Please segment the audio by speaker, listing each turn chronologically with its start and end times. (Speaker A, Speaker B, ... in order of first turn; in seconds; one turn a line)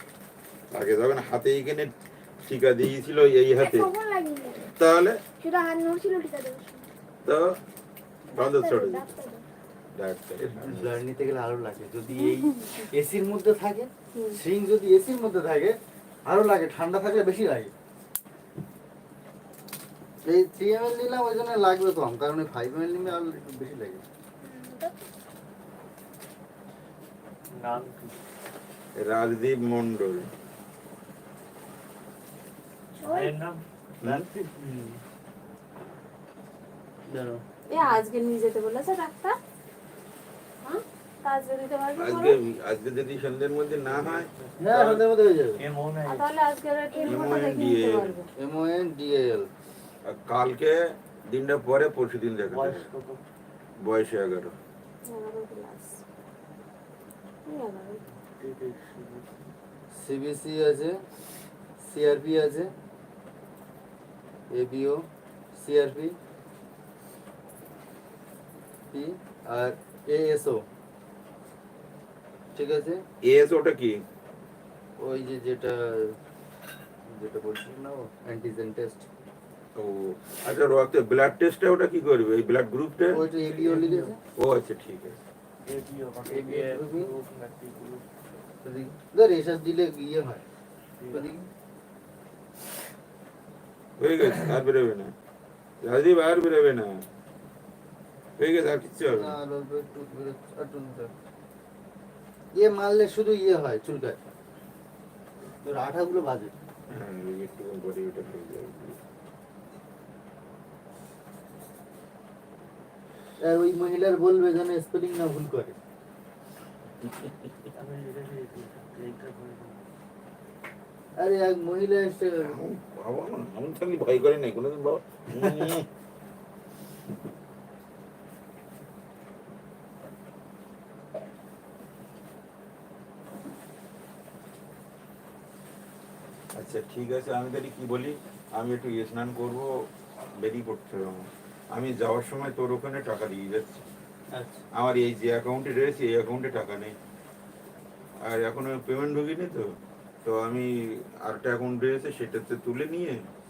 Speaker A: 0.7-3.9
Speaker B: 3.7-4.6
Speaker A: 4.8-5.2
Speaker B: 5.4-6.9
Speaker A: 7.2-7.6
Speaker A: 8.3-9.2
Speaker B: 8.3-9.4
Speaker A: 9.9-11.0
Speaker C: 10.4-17.7
Speaker D: 12.2-12.7
Speaker D: 14.1-14.4
Speaker C: 20.2-24.0
Speaker B: 24.4-24.9
Speaker E: 27.5-28.2
Speaker A: 28.9-30.3
Speaker B: 33.0-33.3
Speaker E: 33.1-34.5
Speaker C: 34.6-35.0
Speaker C: 37.1-37.4
Speaker D: 37.7-39.4
Speaker D: 40.6-42.4
Speaker A: 42.0-45.0
Speaker E: 43.8-44.6
Speaker C: 44.6-45.6
Speaker E: 45.6-46.3
Speaker D: 46.0-48.3
Speaker B: 46.9-47.3
Speaker A: 47.0-48.2
Speaker C: 48.4-49.5
Speaker A: 50.0-50.8
Speaker A: 51.3-52.9
Speaker E: 52.5-53.2
Speaker A: 53.8-54.5
Speaker D: 55.0-56.0
Speaker D: 57.5-58.0
Speaker E: 58.3-59.3
Speaker C: 59.9-61.0
Speaker C: 61.8-62.7
Speaker C: 64.5-65.0
Speaker C: 65.5-66.2
Speaker C: 68.9-70.7
Speaker C: 72.5-73.0
Speaker A: 73.2-74.0
Speaker C: 75.0-76.2
Speaker C: 77.1-79.1
Speaker A: 79.8-83.2
Speaker C: 83.1-84.2
Speaker E: 83.3-84.1
Speaker A: 84.4-85.2
Speaker E: 85.6-88.0
Speaker C: 86.3-87.1
Speaker C: 88.6-90.4
Speaker E: 91.0-91.3
Speaker C: 91.1-91.5
Speaker A: 94.0-95.1
Speaker A: 95.8-97.0
Speaker A: 98.4-99.4
Speaker C: 99.1-101.1
Speaker C: 102.5-104.2
Speaker C: 105.6-106.5
Speaker A: 106.9-109.0
Speaker C: 113.4-115.8
Speaker E: 117.7-119.8
Speaker C: 121.2-122.6
Speaker A: 122.4-125.9
Speaker A: 136.6-139.7
Speaker A: 140.4-143.8
Speaker C: 144.3-144.6
Speaker A: 144.8-146.9
Speaker A: 148.2-149.7
Speaker A: 150.2-150.7
Speaker A: 151.2-153.2